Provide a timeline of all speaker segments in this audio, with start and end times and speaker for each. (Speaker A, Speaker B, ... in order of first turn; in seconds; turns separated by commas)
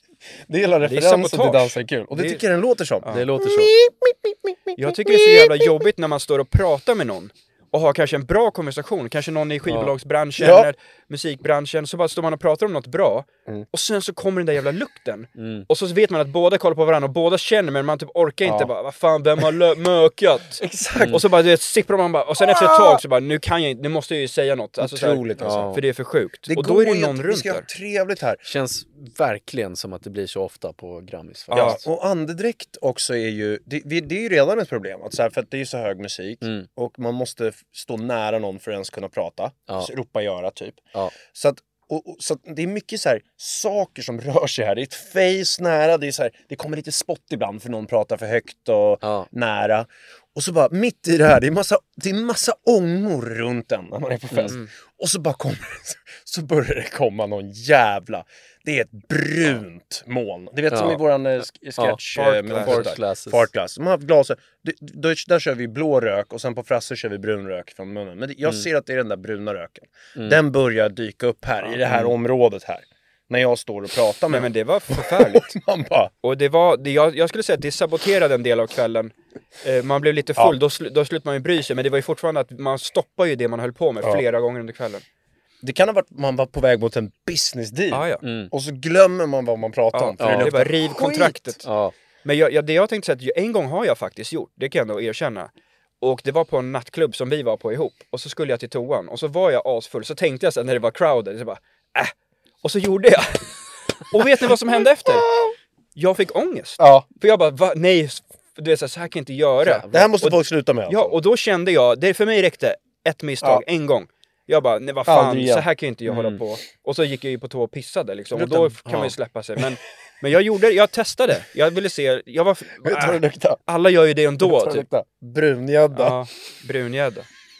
Speaker A: 0.5-5.8, Speaker B: 0.8-2.4, Speaker C: 3.1-3.7, Speaker B: 4.8-27.6, Speaker C: 9.7-9.9, Speaker A: 10.4-10.7, Speaker C: 15.3-15.7, Speaker A: 20.6-21.3, Speaker C: 20.9-21.2, Speaker A: 22.4-23.0, Speaker A: 24.8-25.8, Speaker C: 25.4-25.8, Speaker A: 26.5-28.4, Speaker C: 28.4-31.8, Speaker B: 31.5-31.8, Speaker A: 31.5-76.1, Speaker C: 36.4-36.7, Speaker C: 49.0-49.3, Speaker C: 60.7-61.0, Speaker C: 61.8-63.5, Speaker B: 62.1-62.9, Speaker C: 70.2-70.4, Speaker C: 71.9-72.1, Speaker B: 74.3-75.5, Speaker B: 76.2-85.0, Speaker A: 85.6-91.4, Speaker B: 87.9-88.2, Speaker C: 88.2-88.5, Speaker B: 89.9-91.6, Speaker C: 90.2-90.5, Speaker C: 91.6-91.9, Speaker B: 92.2-103.5, Speaker B: 104.1-105.3, Speaker A: 104.4-105.5, Speaker B: 106.0-124.9, Speaker A: 106.8-107.0, Speaker C: 109.6-110.1, Speaker A: 109.9-111.2, Speaker A: 115.0-115.7, Speaker C: 116.1-116.4, Speaker A: 118.3-118.8, Speaker C: 118.8-119.1, Speaker A: 122.8-123.6, Speaker A: 124.4-126.2, Speaker B: 125.9-127.3